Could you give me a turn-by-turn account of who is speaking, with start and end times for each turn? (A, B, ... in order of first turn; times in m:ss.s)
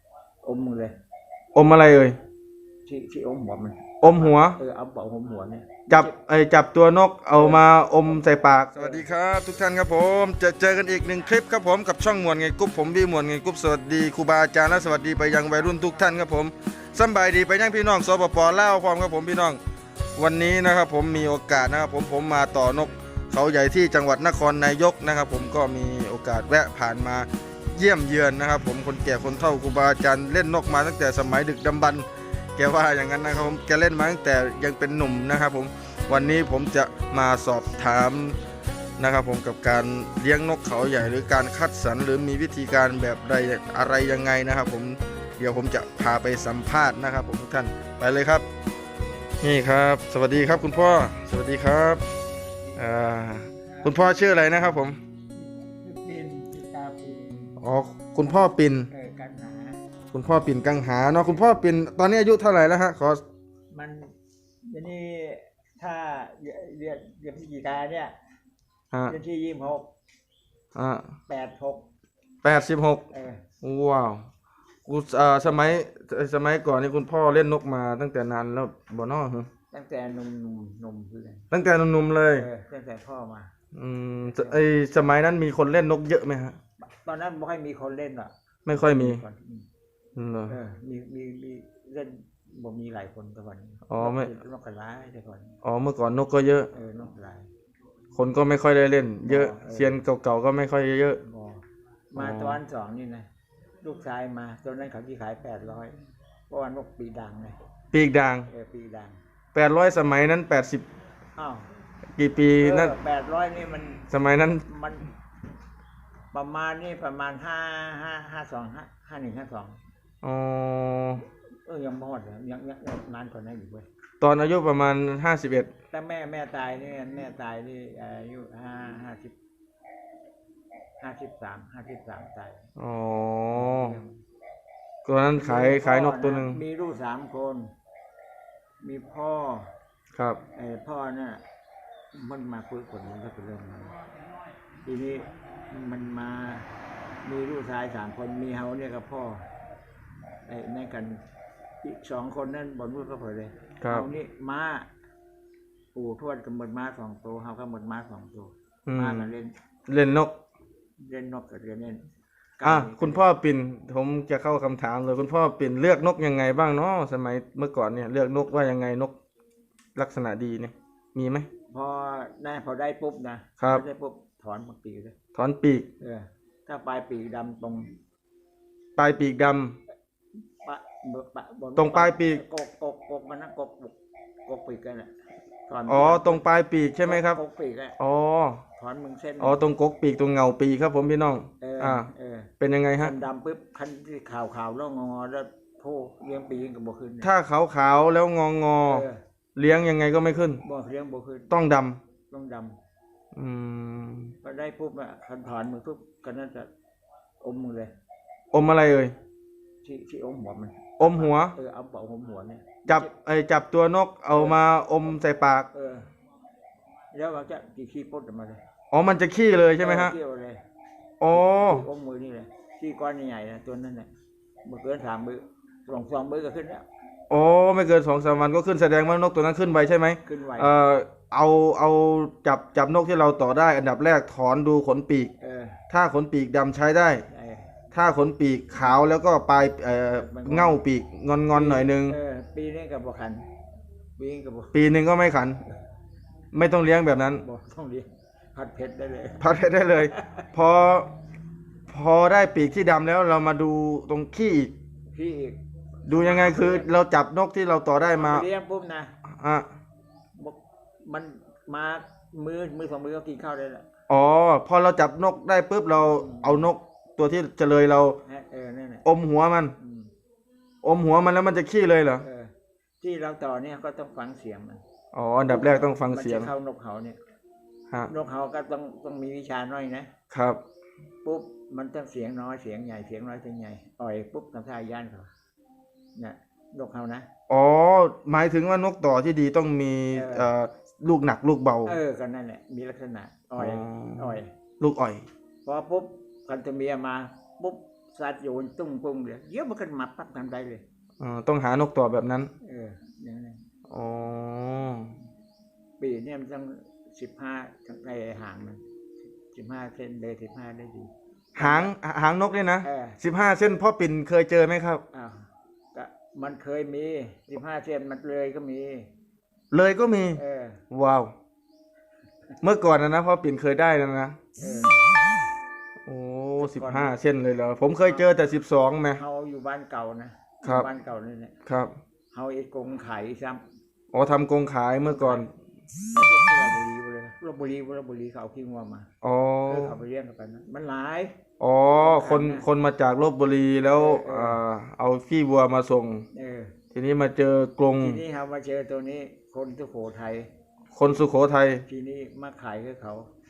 0:00.4-0:00.9 A
0:01.5-0:02.2 B
0:02.8-0:06.1 A
0:04.0-0:04.6 B
0:05.9-0:19.6 B
0:07.3-0:07.6 A
0:08.7-0:09.1 A
0:20.2-0:38.4 B
0:39.0-0:48.4 B
0:49.4-0:52.0 B
0:52.8-0:55.0 B
0:53.6-0:53.9 A
0:55.3-0:57.6 A
0:57.6-0:58.9 B
0:58.9-0:59.8 A
1:00.1-1:03.2 B
1:03.7-1:04.1 A
1:04.7-1:08.1 A
1:09.1-1:09.9 A
1:10.7-1:11.1 B
1:11.3-1:11.8 A
1:12.4-1:13.0 B
1:13.1-1:13.4 A
1:13.6-1:14.3 B
1:14.8-1:19.5 B
1:19.7-1:21.5 A
1:21.5-1:22.4 B
1:22.4-1:23.5 A
1:23.7-1:26.6 B
1:24.3-1:24.6 A
1:26.8-1:29.6 A
1:28.6-1:29.2 B
1:30.2-1:30.5 B
1:30.5-1:35.6 A
1:33.9-1:34.3 B
1:35.6-1:36.7 B
1:36.7-1:37.5 A
1:38.1-1:41.2 B
1:39.2-1:40.0 A
1:41.2-1:43.3 A
1:42.2-1:42.6 B
1:43.8-1:45.9 A
1:46.5-1:47.6 A
1:47.9-1:48.5 B
1:48.5-1:49.2 A
1:49.5-1:50.8 B
1:51.4-1:51.7 A
1:52.2-1:53.0 B
1:52.6-1:54.1 A
1:54.1-1:54.6 B
1:54.6-1:55.1 A
1:56.3-1:59.8 A
2:00.2-2:01.2 B
2:01.6-2:03.8 A
2:04.2-2:05.7 B
2:05.9-2:09.3 A
2:11.0-2:12.6 A
2:12.8-2:14.0 B
2:13.5-2:14.1 A
2:15.0-2:16.6 B
2:15.4-2:17.7 A
2:18.8-2:19.7 A
2:20.5-2:21.4 A
2:22.1-2:24.0 A
2:24.8-2:26.7 A
2:27.2-2:29.4 A
2:30.5-2:31.2 A
2:31.8-2:34.9 A
2:33.8-2:34.1 B
2:35.9-2:39.5 A
2:38.8-2:39.3 B
2:39.9-2:40.3 B
2:41.0-2:42.0 A
2:42.6-2:43.2 A
2:42.6-2:49.1 B
2:50.0-2:51.5 B
2:51.7-2:55.1 A
2:53.6-2:53.8 B
2:55.3-2:55.9 B
2:56.0-2:58.0 A
2:59.0-2:59.8 B
3:00.6-3:03.9 A
3:01.8-3:02.4 B
3:04.4-3:05.1 A
3:05.7-3:06.4 A
3:05.9-3:07.4 B
3:07.0-3:08.0 A
3:08.0-3:08.6 B
3:08.8-3:09.6 A
3:09.4-3:12.1 B
3:11.6-3:17.3 A
3:12.6-3:13.1 B
3:17.2-3:20.6 B
3:18.8-3:19.2 A
3:20.6-3:21.5 A
3:21.5-3:22.0 B
3:22.3-3:22.8 A
3:23.3-3:24.3 B
3:24.4-3:26.7 A
3:27.4-3:27.9 A
3:28.5-3:29.1 B
3:29.8-3:33.1 A
3:31.0-3:31.5 B
3:32.9-3:35.7 B
3:34.3-3:34.6 A
3:35.7-3:36.1 A
3:37.1-3:38.6 A
3:38.9-3:40.1 B
3:39.8-3:40.6 A
3:41.2-3:41.9 B
3:41.3-3:44.1 A
3:44.6-3:46.8 A
3:47.3-3:55.3 B
3:50.2-3:50.7 A
3:55.4-3:55.8 A
3:55.9-3:57.2 B
3:57.3-3:57.7 A
3:57.9-4:02.2 B
4:00.1-4:00.8 A
4:01.5-4:03.4 A
4:04.2-4:04.8 A
4:04.7-4:05.6 B
4:06.5-4:07.4 B
4:07.3-4:09.5 A
4:09.4-4:11.1 B
4:10.0-4:10.4 A
4:11.9-4:14.7 B
4:15.1-4:16.9 A
4:16.0-4:18.4 B
4:18.1-4:19.1 A
4:19.4-4:19.6 B
4:20.4-4:23.8 A
4:24.1-4:28.2 B
4:26.0-4:26.7 A
4:28.3-4:29.0 A
4:29.0-4:29.7 B
4:29.8-4:30.1 A
4:30.8-4:32.2 B
4:32.2-4:34.8 A
4:35.1-4:36.5 B
4:35.4-4:37.2 A
4:38.1-4:40.1 A
4:40.3-4:40.6 B
4:41.2-4:45.3 A
4:46.2-4:47.3 A
4:47.5-4:52.0 B
4:50.1-4:50.5 A
4:51.8-4:54.5 A
4:53.6-4:55.2 B
4:55.6-5:00.8 A
5:01.2-5:02.5 B
5:02.6-5:03.6 A
5:03.9-5:05.1 B
5:06.0-5:08.8 A
5:09.5-5:11.9 A
5:11.6-5:15.0 B
5:12.8-5:13.2 A
5:15.1-5:19.1 A
5:19.7-5:20.4 B
5:20.4-5:20.8 A
5:20.9-5:21.3 B
5:22.6-5:24.4 B
5:24.6-5:24.9 A
5:26.0-5:29.2 B
5:26.6-5:27.1 A
5:29.1-5:31.5 A
5:31.6-5:31.9 B
5:32.3-5:33.6 A
5:34.1-5:35.5 B
5:35.1-5:35.5 A
5:36.1-5:39.1 A
5:39.2-5:39.9 B
5:39.7-5:41.4 A
5:41.6-5:46.2 B
5:42.0-5:42.7 A
5:43.9-5:44.6 A
5:46.3-5:46.7 A
5:46.9-5:48.2 B
5:48.0-5:50.5 A
5:50.9-5:51.8 B
5:51.9-5:53.3 A